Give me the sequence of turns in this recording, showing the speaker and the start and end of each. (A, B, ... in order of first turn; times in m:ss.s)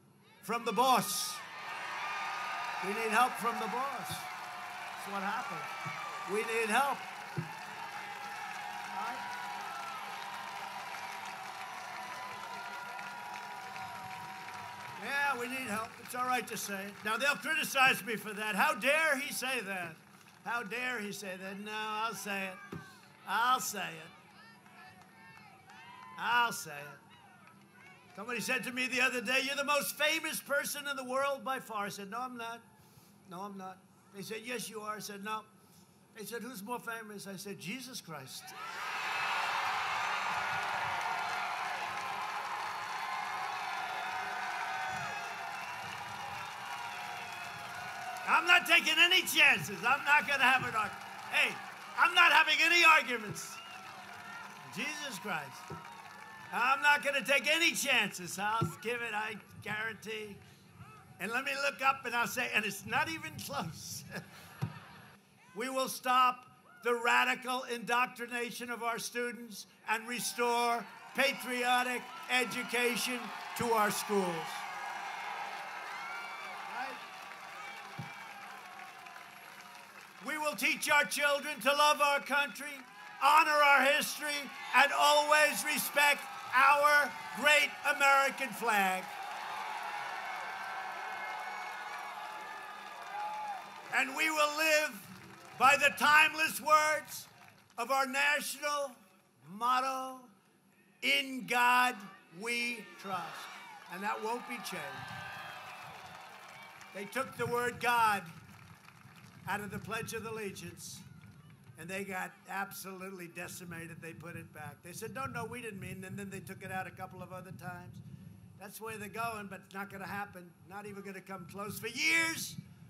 0:00.4-0:01.4 A
0:02.8-0:04.3 A
0:05.0-0:05.7 A
0:06.2-0:07.1 A
0:08.9-0:09.2 A
0:15.0-0:22.6 A
0:23.2-0:24.1 A
0:26.2-0:27.0 A
0:28.1-0:32.6 A
0:33.3-0:35.5 A
0:36.1-0:38.6 A
0:48.2-0:53.6 A
0:54.6-0:55.7 A
0:56.5-1:00.4 A
1:01.2-1:04.2 A
1:05.5-1:14.6 A
1:16.7-1:17.0 A
1:20.2-1:29.1 A
1:33.9-1:40.3 A
1:41.0-1:45.1 A
1:46.9-1:48.3 A
1:49.4-1:51.0 A
1:51.8-1:58.0 A
1:58.6-2:02.6 A